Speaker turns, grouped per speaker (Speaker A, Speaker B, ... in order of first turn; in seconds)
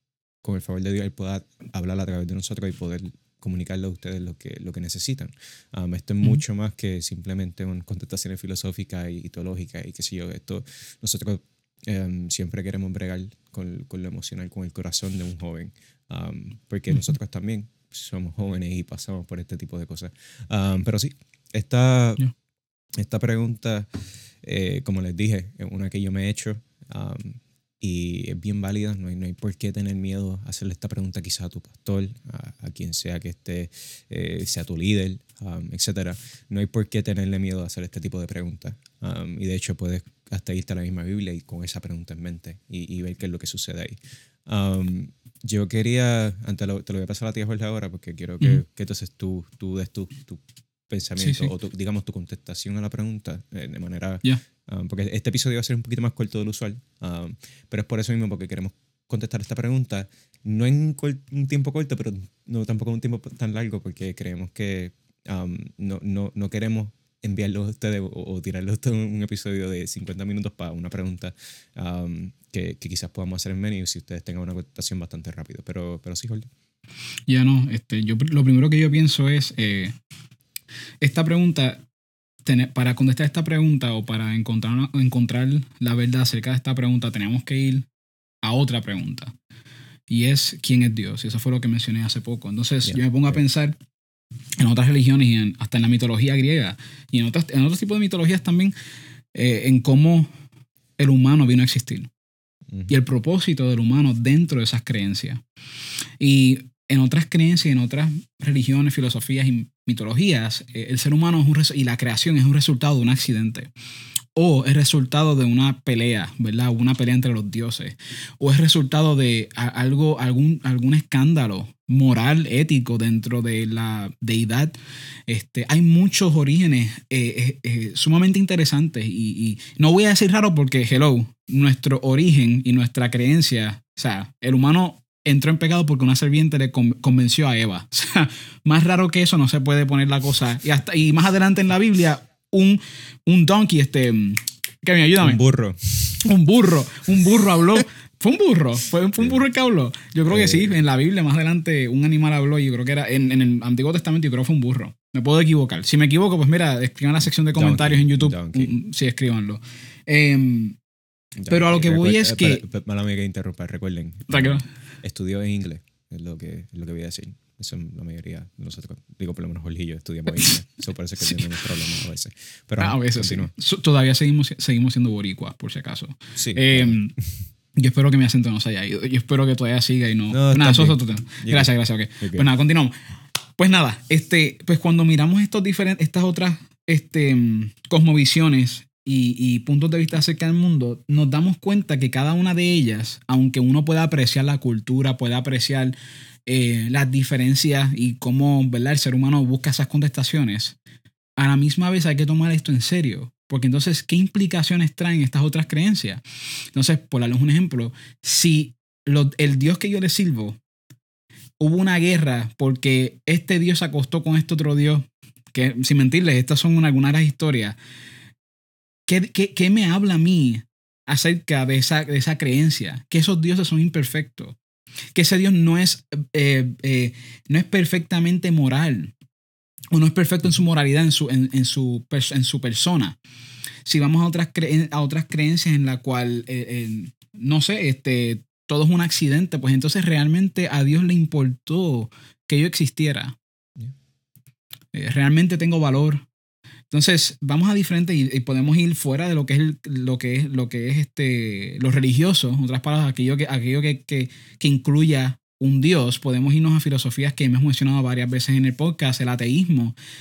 Speaker A: 0.4-22.3, 23.0-23.9, 24.4-76.5, 145.2-146.3, 150.2-150.8, 157.5-158.7, 161.4-173.5, 176.3-177.0, 180.3-182.5
Speaker B: 51.2-51.5, 77.3-79.9, 81.0-81.8, 82.4-87.9, 88.4-89.3, 90.1-93.8, 94.6-98.7, 99.3-100.3, 101.0-102.1, 102.9-105.4, 106.2-113.7, 114.3-145.4, 146.2-160.8, 161.5-162.6, 164.3-164.7, 172.8-177.1, 177.8-182.9, 183.6-200.8, 201.4-210.6, 211.6-217.8, 219.1-224.6, 225.1-229.1, 229.9-233.2, 233.8-243.3, 244.9-246.2, 246.9-259.9